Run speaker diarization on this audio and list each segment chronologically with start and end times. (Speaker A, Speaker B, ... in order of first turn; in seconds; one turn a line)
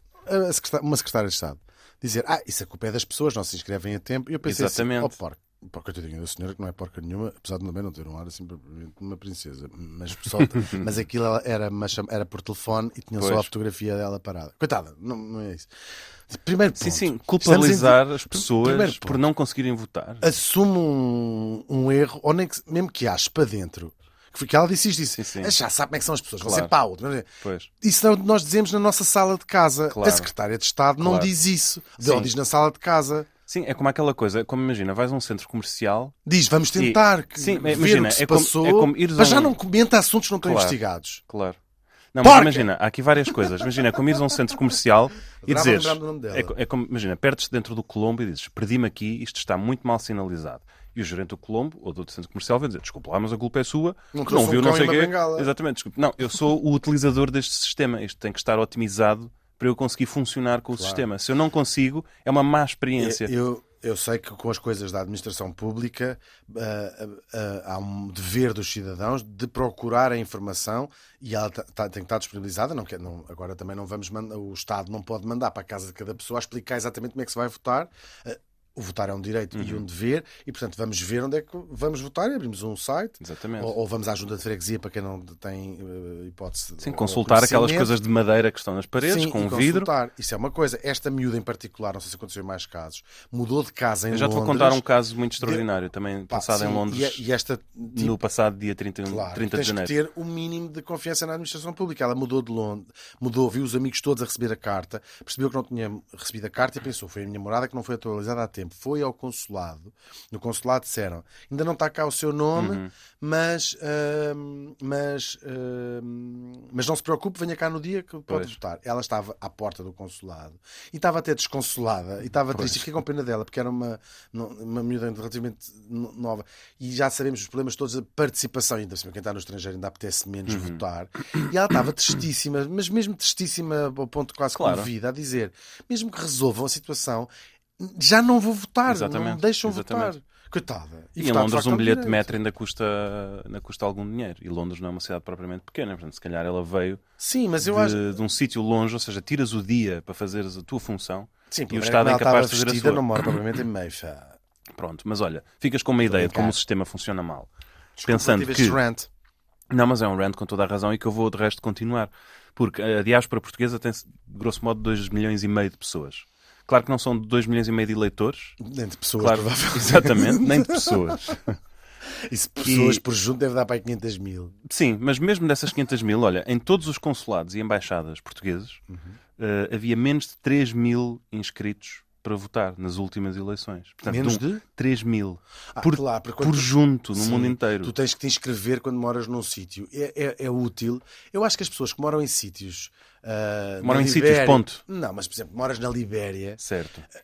Speaker A: 0.3-15.7
Speaker B: 4.5-5.2
Speaker B: 13.2-13.5
Speaker A: 16.3-19.2
Speaker B: 16.8-20.3
Speaker A: 20.2-27.3
Speaker B: 25.2-25.5
Speaker B: 26.4-26.8
Speaker B: 27.4-27.7
Speaker A: 27.8-33.3
Speaker B: 29.9-30.3
Speaker B: 31.0-31.3
Speaker B: 32.0-32.3
Speaker B: 33.5-36.1
Speaker A: 36.2-41.2
Speaker B: 36.8-39.6
Speaker B: 40.4-40.8
Speaker B: 41.3-41.6
Speaker B: 42.1-63.3
Speaker A: 42.2-42.7
Speaker A: 45.4-46.5
Speaker A: 54.1-55.5
Speaker A: 60.7-61.0
Speaker A: 63.0-87.9
Speaker B: 79.5-79.8
Speaker B: 83.2-83.7
Speaker B: 86.8-89.9
Speaker A: 89.0-94.8
Speaker B: 94.1-97.2
Speaker A: 95.4-95.7
Speaker A: 96.3-98.2
Speaker B: 97.9-99.9
Speaker A: 99.1-142.4
Speaker B: 112.5-112.9
Speaker B: 118.3-118.6
Speaker B: 122.5-122.9
Speaker B: 130.5-130.8
Speaker B: 134.6-134.9
Speaker B: 138.9-140.1
Speaker B: 141.2-147.0
Speaker A: 147.2-148.2
Speaker B: 147.6-153.2
Speaker A: 151.5-154.4
Speaker B: 154.8-157.5
Speaker A: 156.1-156.6
Speaker A: 158.0-159.1
Speaker B: 158.1-158.8
Speaker B: 159.7-168.6
Speaker A: 168.6-171.4
Speaker B: 169.2-171.6
Speaker A: 172.2-174.6
Speaker B: 172.6-173.0
Speaker B: 174.7-178.8
Speaker A: 178.9-179.2
Speaker B: 179.4-187.9
Speaker A: 184.1-184.6
Speaker A: 185.7-196.6
Speaker B: 193.8-194.8
Speaker B: 196.6-197.1